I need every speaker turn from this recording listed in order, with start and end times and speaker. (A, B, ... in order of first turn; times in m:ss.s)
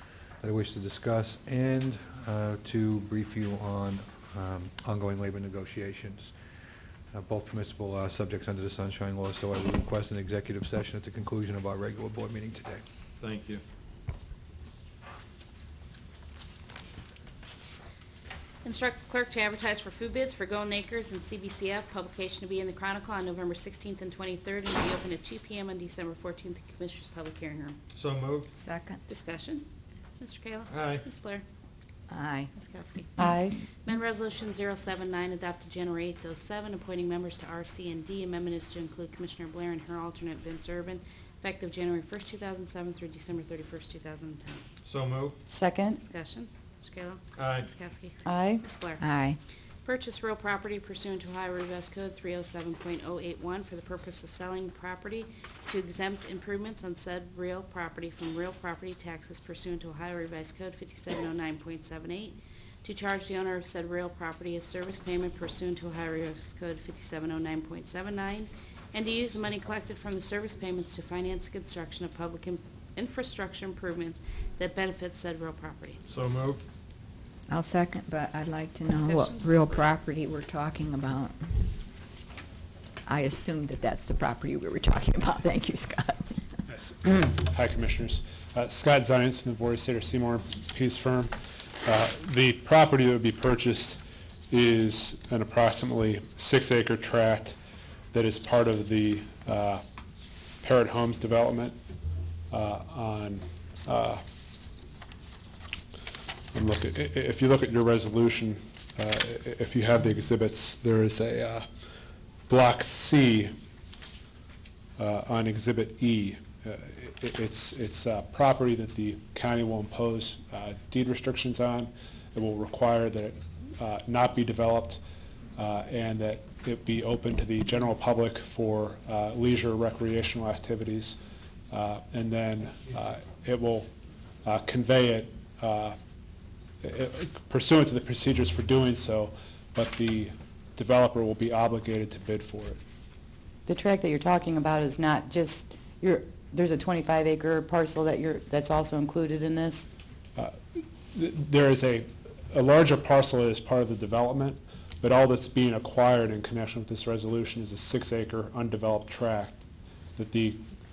0:00.4-0:06.3 A
0:07.1-0:12.8 A
0:13.2-0:13.6 B
0:18.6-0:27.8 C
0:28.0-0:28.5 B
0:28.6-0:29.0 D
0:29.1-0:29.6 C
0:30.2-0:31.4 C
0:30.7-0:31.0 B
0:32.1-0:32.5 D
0:32.6-0:33.1 C
0:33.8-0:44.6 C
0:44.8-0:45.4 B
0:45.9-0:49.0 C
0:47.4-0:47.7 B
0:49.0-0:49.4 D
0:49.8-1:16.0 C
1:16.1-1:16.6 B
1:17.5-1:21.7 D
1:18.8-1:19.5 C
1:23.1-1:26.4 D
1:26.7-1:31.3 E
1:31.9-1:34.0 E
1:34.5-1:37.6 E
1:38.1-1:39.8 E
1:40.6-1:41.8 E
1:42.5-1:44.2 E
1:46.5-1:51.7 E
1:52.5-1:53.5 E
1:55.0-2:05.0 E
2:05.6-2:11.2 E
2:11.7-2:13.9 E
2:14.4-2:16.0 E
2:16.8-2:22.8 E
2:23.7-2:29.9 F
2:30.4-2:39.6 E
2:40.2-2:40.6 E